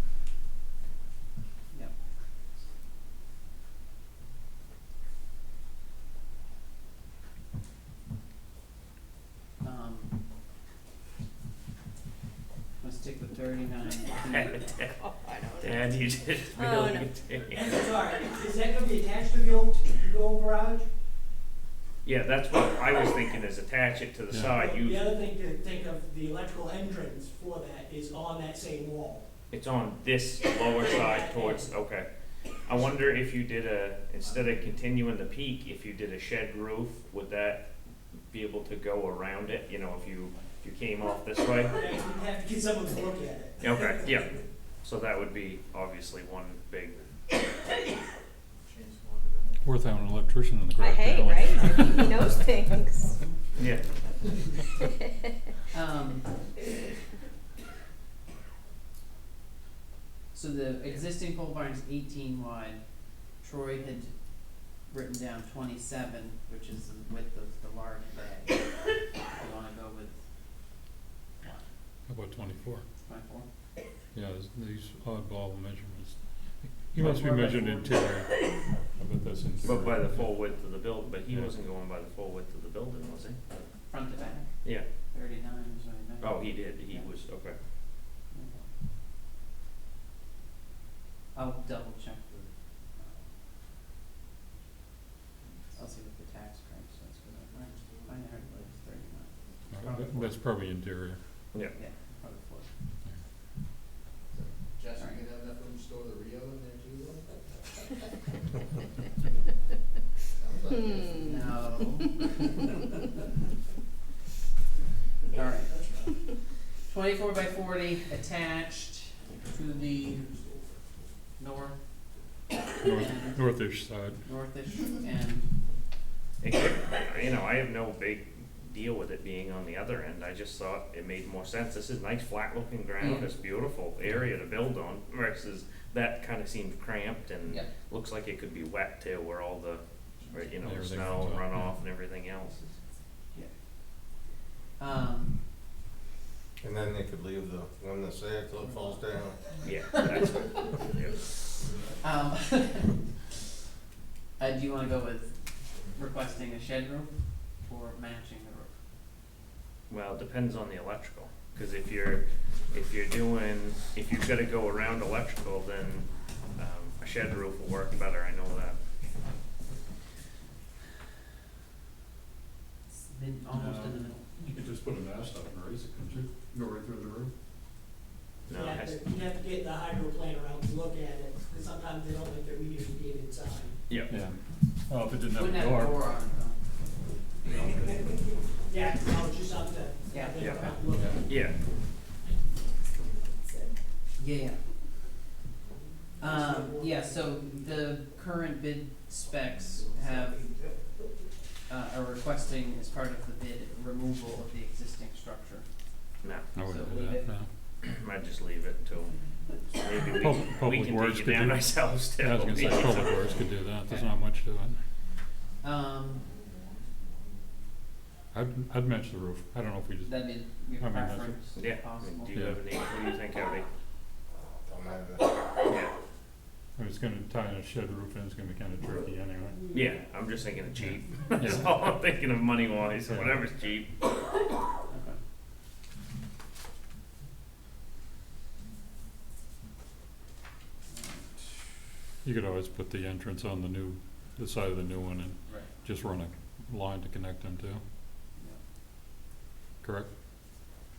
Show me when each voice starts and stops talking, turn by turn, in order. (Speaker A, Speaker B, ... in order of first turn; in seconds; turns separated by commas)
Speaker A: 9.6-10.1, Speaker A: 12.8-14.7, Speaker B: 14.2-18.0, Speaker C: 15.0-15.9, Speaker C: 16.5-17.1, Speaker D: 17.5-20.9, Speaker B: 22.0-25.1, Speaker D: 24.6-29.3, Speaker B: 29.5-32.1, Speaker D: 30.7-31.7, Speaker B: 32.6-37.7, Speaker B: 38.3-41.8, Speaker D: 41.7-44.4, Speaker B: 43.6-47.0, Speaker E: 48.6-49.8, Speaker F: 49.6-52.5, Speaker C: 50.8-53.2, Speaker B: 53.5-53.9, Speaker C: 54.8-55.2, Speaker A: 55.7-56.3, Speaker A: 60.3-62.8, Speaker A: 63.4-64.1, Speaker A: 64.7-70.2, Speaker F: 72.1-72.8, Speaker A: 73.1-73.5, Speaker F: 74.1-80.3, Speaker A: 77.0-78.1, Speaker B: 79.6-83.4, Speaker A: 83.9-84.5, Speaker A: 85.1-87.1, Speaker B: 86.2-87.6, Speaker A: 88.3-88.7, Speaker A: 91.3-92.3, Speaker A: 95.8-100.3, Speaker E: 97.5-98.2, Speaker F: 99.7-101.2, Speaker A: 101.8-102.7, Speaker E: 104.3-107.6, Speaker E: 110.3-111.6, Speaker C: 110.7-112.1, Speaker A: 111.2-112.6, Speaker A: 115.3-115.9, Speaker A: 116.9-120.5, Speaker A: 121.4-121.8, Speaker F: 122.8-124.2, Speaker A: 122.9-123.4, Speaker A: 124.2-125.5, Speaker B: 126.4-142.7, Speaker A: 133.0-133.3, Speaker F: 140.6-141.7, Speaker A: 144.8-145.4, Speaker G: 146.6-149.4, Speaker A: 148.6-149.0, Speaker A: 149.5-150.3, Speaker B: 149.6-151.2, Speaker A: 152.0-153.0, Speaker A: 154.4-158.7, Speaker B: 159.9-168.8, Speaker A: 172.9-174.2, Speaker F: 173.5-177.3, Speaker B: 178.5-179.0, Speaker D: 178.5-183.8, Speaker B: 183.9-184.1, Speaker F: 184.0-186.0, Speaker A: 185.3-186.6, Speaker F: 187.4-187.9, Speaker D: 187.5-191.4, Speaker A: 190.1-190.8, Speaker B: 190.4-190.6, Speaker B: 191.2-191.6, Speaker D: 192.2-193.7, Speaker A: 194.2-194.6, Speaker D: 196.2-197.7, Speaker A: 196.2-200.4, Speaker D: 200.4-200.7, Speaker A: 201.7-205.7, Speaker B: 206.2-206.5, Speaker F: 206.5-207.5, Speaker A: 206.6-207.3, Speaker B: 207.8-209.1, Speaker B: 209.7-213.3, Speaker F: 210.1-214.8, Speaker A: 213.8-214.1, Speaker A: 215.6-216.2, Speaker E: 216.2-217.4, Speaker F: 218.3-221.4, Speaker A: 220.0-222.4, Speaker B: 221.6-223.7, Speaker F: 222.3-222.6, Speaker G: 224.4-225.4, Speaker B: 225.6-225.9, Speaker F: 226.8-229.7, Speaker B: 229.7-234.0, Speaker F: 230.8-231.7, Speaker F: 233.1-233.4, Speaker A: 234.9-235.2, Speaker A: 240.9-241.5, Speaker F: 242.2-247.8, Speaker F: 249.8-250.1